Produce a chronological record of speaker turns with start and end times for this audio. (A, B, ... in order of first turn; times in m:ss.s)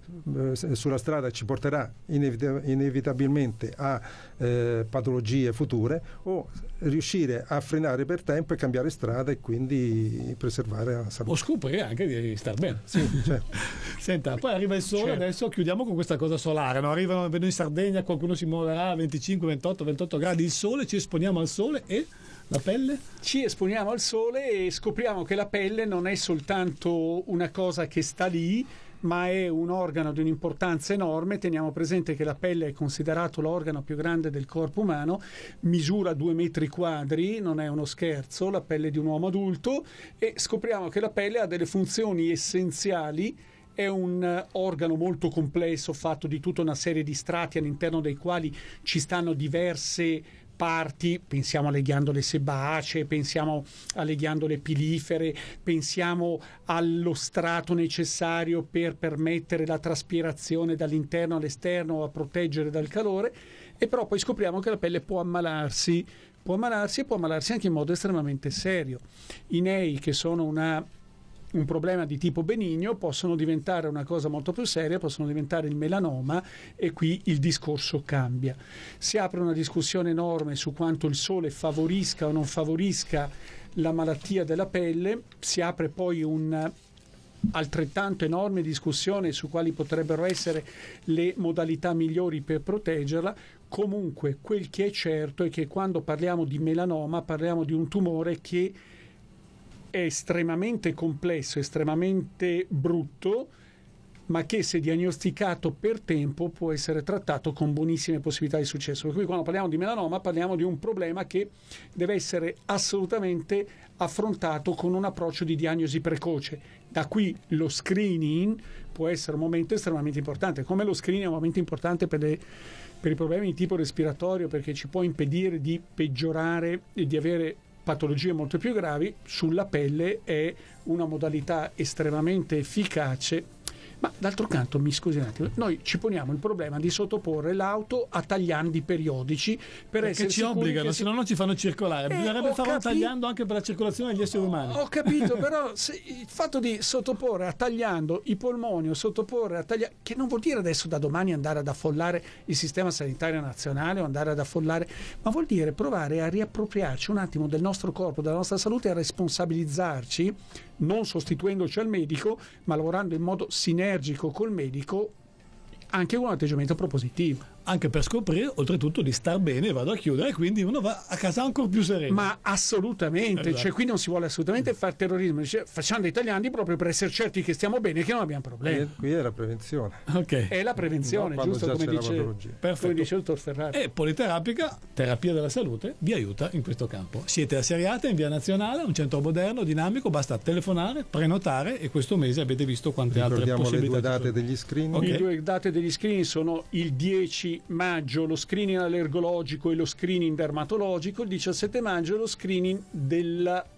0:00.2-0:11.4 A
0:11.3-0:23.0 B
0:12.9-0:13.4 A
0:23.2-1:10.8 C
1:11.5-1:26.7 C
1:27.5-1:38.8 C
1:39.9-1:43.5 C
1:44.3-2:02.4 C
2:03.0-2:13.5 C
2:14.0-2:21.1 C
2:20.0-2:25.3 B
2:22.1-2:23.1 C
2:24.6-2:45.1 C
2:45.9-2:47.4 C
2:47.6-2:52.3 B
2:52.1-2:58.9 C
2:53.4-2:53.7 B
2:58.6-3:00.0 A
3:00.1-3:00.5 B
3:00.5-3:03.8 C
3:01.0-3:02.6 A
3:02.6-3:03.1 B
3:03.7-3:14.3 B
3:13.1-3:15.1 A
3:14.9-3:15.2 B
3:15.0-3:23.6 C